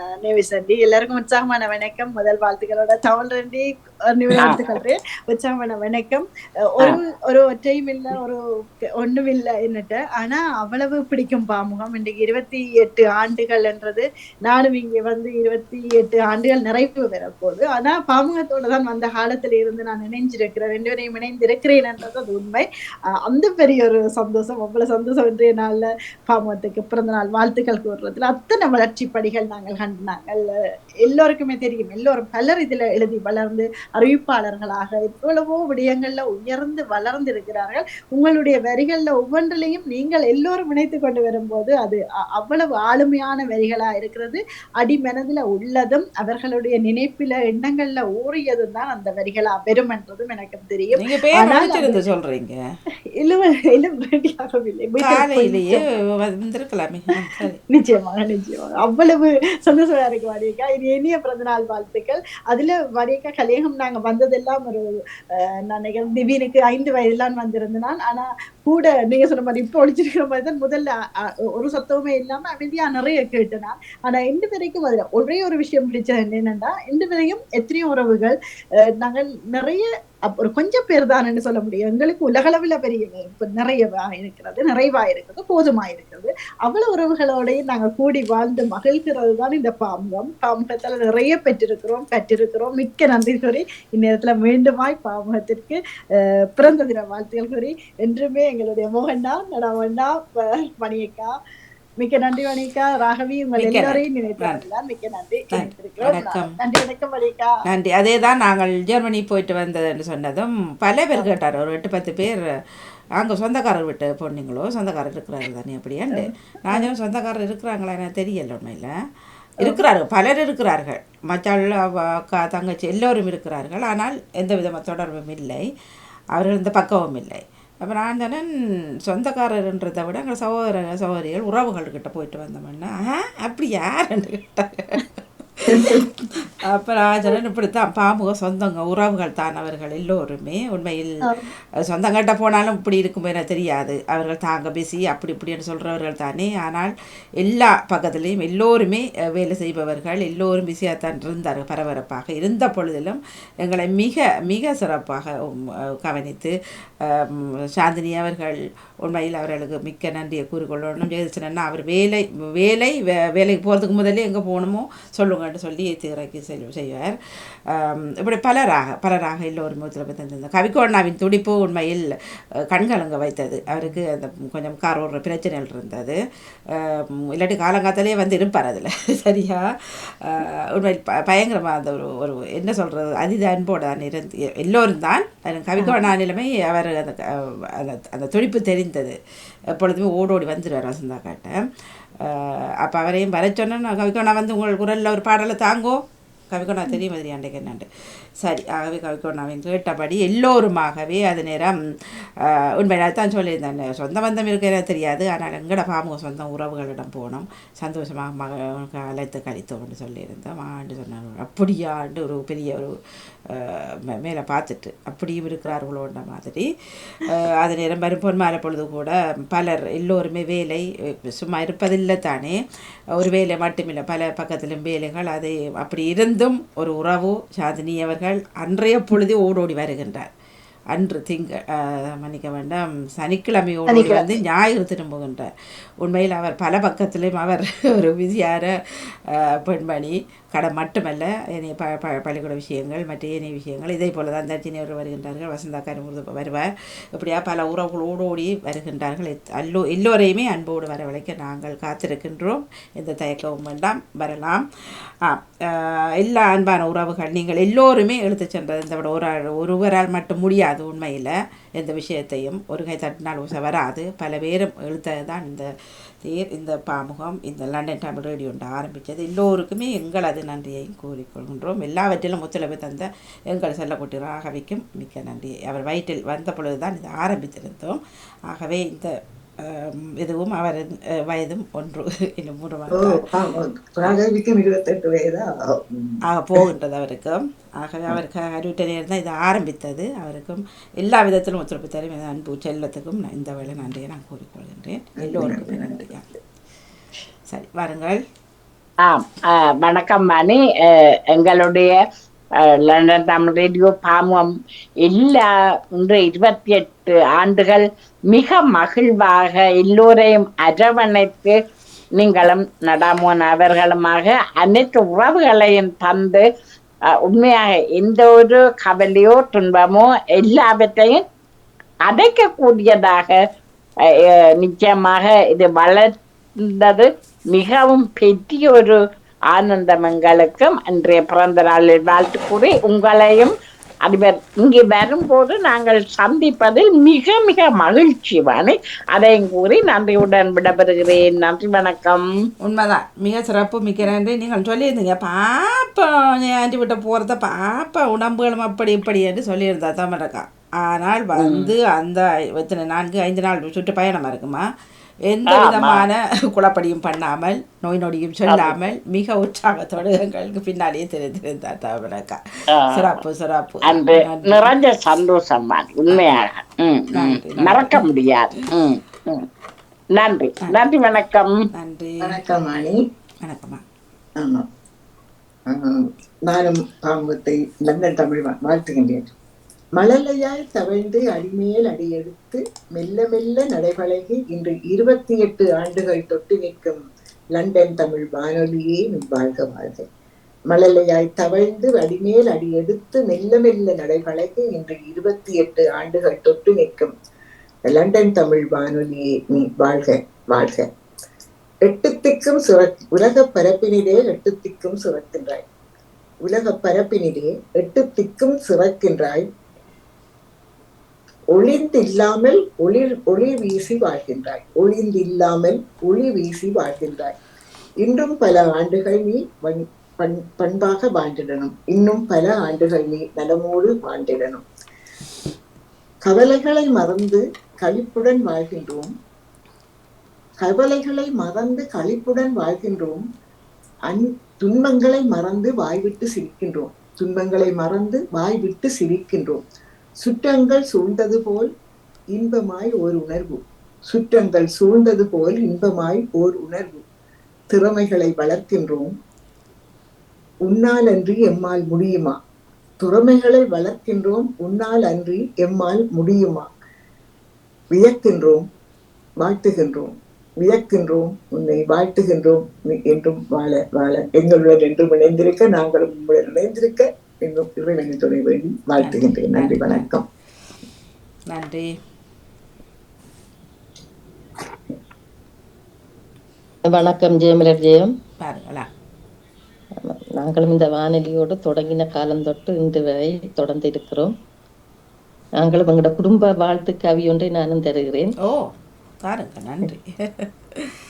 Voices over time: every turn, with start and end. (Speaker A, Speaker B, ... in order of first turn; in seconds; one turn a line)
Speaker A: 0.2-8.4
Speaker A: 9.0-22.6
Speaker A: 23.2-30.5
Speaker A: 31.0-52.0
Speaker B: 50.9-52.6
Speaker A: 53.2-55.8
Speaker B: 55.0-57.6
Speaker A: 57.7-78.3
Speaker A: 79.0-101.3
Speaker A: 102.0-107.5
Speaker B: 103.6-104.6
Speaker B: 105.5-106.5
Speaker B: 107.7-112.4
Speaker B: 113.2-118.9
Speaker A: 116.1-116.9
Speaker B: 119.6-125.7
Speaker B: 126.3-128.4
Speaker B: 129.1-135.1
Speaker B: 135.6-141.2
Speaker C: 135.7-136.0
Speaker B: 141.8-156.5
Speaker B: 157.0-167.1
Speaker B: 167.7-172.1
Speaker B: 172.7-176.2
Speaker B: 176.7-179.6
Speaker B: 180.2-187.2
Speaker B: 187.7-189.2
Speaker B: 189.7-191.6
Speaker B: 192.2-196.0
Speaker B: 196.5-197.9
Speaker B: 198.4-201.8
Speaker B: 202.8-212.9
Speaker B: 213.5-216.7
Speaker B: 217.2-222.6
Speaker B: 223.2-230.3
Speaker B: 230.9-235.5
Speaker B: 236.0-238.7
Speaker B: 239.4-254.6
Speaker B: 255.2-265.7
Speaker B: 266.2-279.1
Speaker B: 279.6-283.2
Speaker C: 282.9-286.6
Speaker B: 286.3-296.2
Speaker C: 295.2-296.1
Speaker B: 297.5-298.2
Speaker D: 299.0-300.6
Speaker D: 301.3-302.0
Speaker D: 302.8-304.5
Speaker D: 305.0-305.4
Speaker D: 306.0-311.6
Speaker D: 312.2-316.4
Speaker D: 317.3-321.2
Speaker D: 322.1-323.4
Speaker D: 324.1-326.1
Speaker D: 326.6-329.0
Speaker D: 329.5-333.5
Speaker D: 334.1-342.3
Speaker B: 342.6-354.6
Speaker D: 351.4-351.7
Speaker B: 355.3-364.7
Speaker D: 355.5-356.0
Speaker D: 358.5-358.7
Speaker D: 362.7-363.2
Speaker D: 363.9-369.4
Speaker B: 367.1-368.0
Speaker D: 370.2-371.5
Speaker B: 371.7-372.3
Speaker C: 372.2-373.0
Speaker B: 373.4-373.8
Speaker C: 374.4-374.6
Speaker C: 375.7-379.3
Speaker C: 380.0-387.0
Speaker C: 387.5-390.1
Speaker C: 390.7-397.1
Speaker C: 397.9-400.9
Speaker C: 401.9-405.6
Speaker C: 406.4-409.4
Speaker C: 411.5-417.4
Speaker C: 418.0-424.6
Speaker C: 426.2-429.1
Speaker C: 430.6-433.2
Speaker C: 434.1-439.6
Speaker C: 440.2-441.7
Speaker C: 442.3-447.0
Speaker C: 447.7-449.1
Speaker C: 450.6-452.4
Speaker C: 453.0-456.7
Speaker C: 457.9-458.6
Speaker C: 459.4-470.2
Speaker B: 469.0-470.1
Speaker B: 471.5-471.9
Speaker E: 476.8-478.1
Speaker B: 478.4-478.9
Speaker E: 480.0-484.3
Speaker E: 485.6-488.3
Speaker B: 489.2-490.9